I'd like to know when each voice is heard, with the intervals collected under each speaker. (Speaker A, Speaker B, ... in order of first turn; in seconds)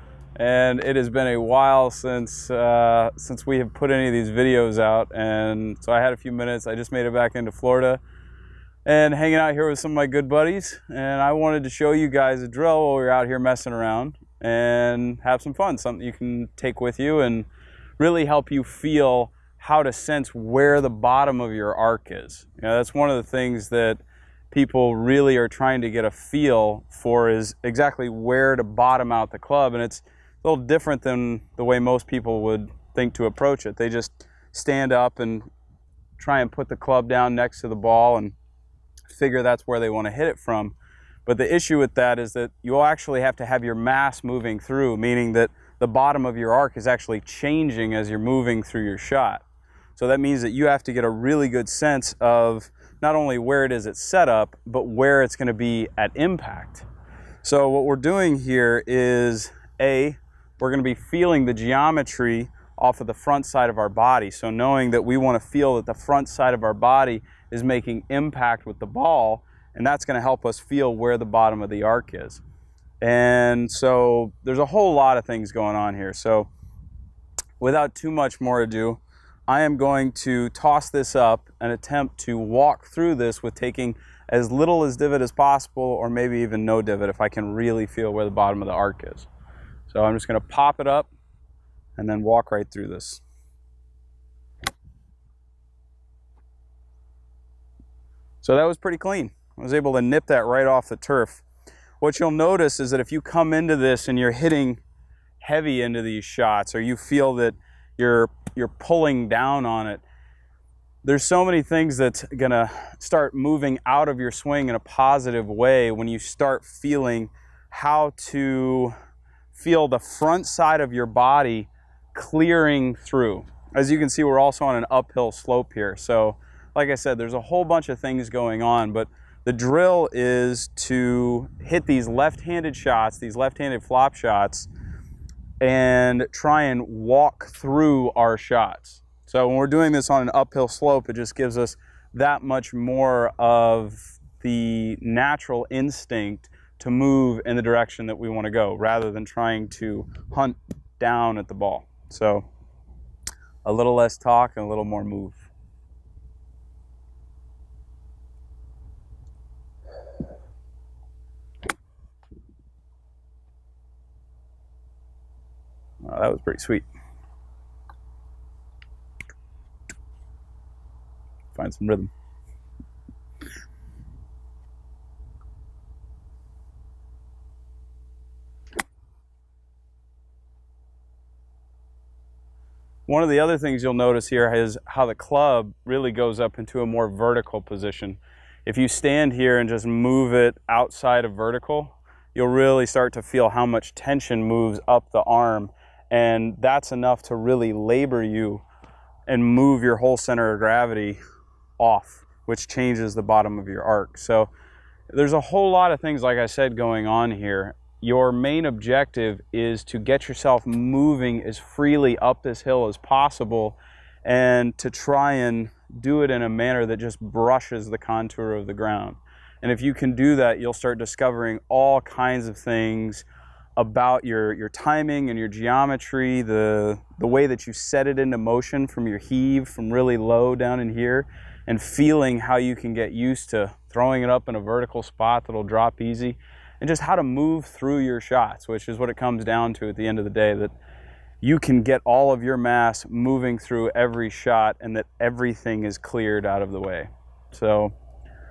Speaker A: 0.4-8.0, 8.8-17.5, 18.0-35.5, 36.2-38.4, 39.1-40.8, 41.3-49.4, 50.0-56.9, 57.4-72.4, 73.0-76.5, 77.6-89.3, 89.9-91.1, 92.0-93.2, 98.4-101.4, 102.0-104.8, 105.4-110.0, 111.0-118.9, 119.5-134.7, 135.6-152.5, 153.6-155.5, 166.0-166.9, 171.5-172.1, 183.1-198.6, 199.3-201.2, 201.8-204.5, 205.1-223.2, 223.8-240.8, 241.4-247.9